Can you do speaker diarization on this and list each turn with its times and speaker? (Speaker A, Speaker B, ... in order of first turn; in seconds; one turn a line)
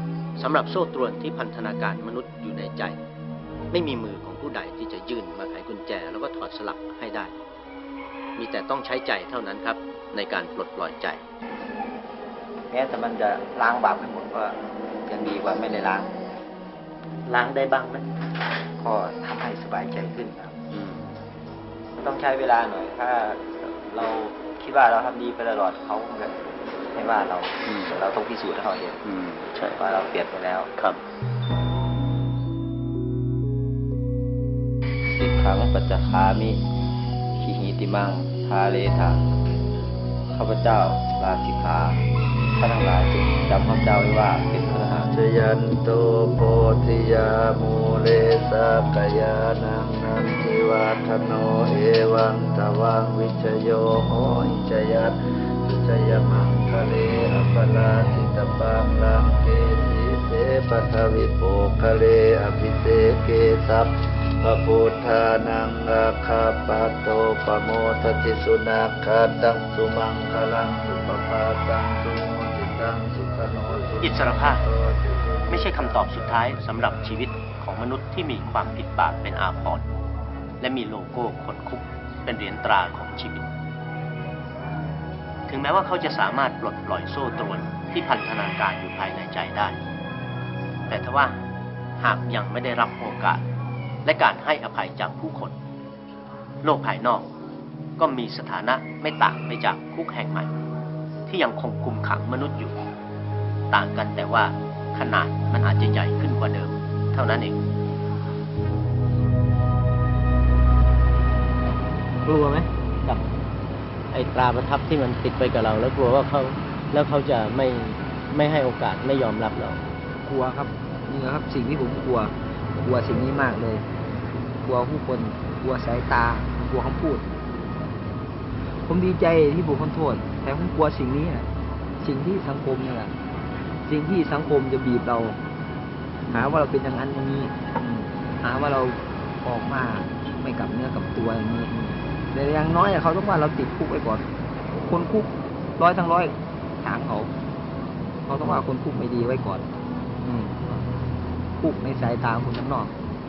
Speaker A: 0.4-3.0
Speaker A: 3.7-7.3
Speaker A: 8.4-11.2
Speaker B: 12.7-16.1
Speaker A: 17.3-18.1
Speaker B: 18.8-20.6
Speaker A: 20.7-21.2
Speaker B: 22.0-29.0
Speaker A: 27.7-27.9
Speaker A: 29.0-30.0
Speaker B: 29.7-30.7
Speaker A: 30.8-31.0
Speaker B: 35.1-36.6
Speaker B: 37.4-39.2
Speaker B: 40.3-42.0
Speaker B: 42.6-45.1
Speaker C: 45.1-63.9
Speaker C: 64.4-76.2
Speaker A: 74.0-74.6
Speaker A: 75.5-79.8
Speaker A: 80.6-83.5
Speaker A: 85.5-89.8
Speaker A: 90.9-91.4
Speaker A: 92.0-93.4
Speaker A: 94.0-95.5
Speaker A: 96.6-97.3
Speaker A: 98.0-100.5
Speaker A: 101.3-102.8
Speaker A: 103.7-107.6
Speaker A: 112.3-113.2
Speaker A: 114.1-119.8
Speaker D: 120.2-123.8
Speaker D: 124.6-127.3
Speaker D: 128.7-131.5
Speaker D: 132.0-133.1
Speaker D: 133.9-135.4
Speaker D: 136.3-137.7
Speaker D: 138.4-141.7
Speaker D: 142.3-144.2
Speaker D: 144.8-147.3
Speaker D: 148.3-149.7
Speaker A: 150.2-150.6
Speaker D: 151.6-152.9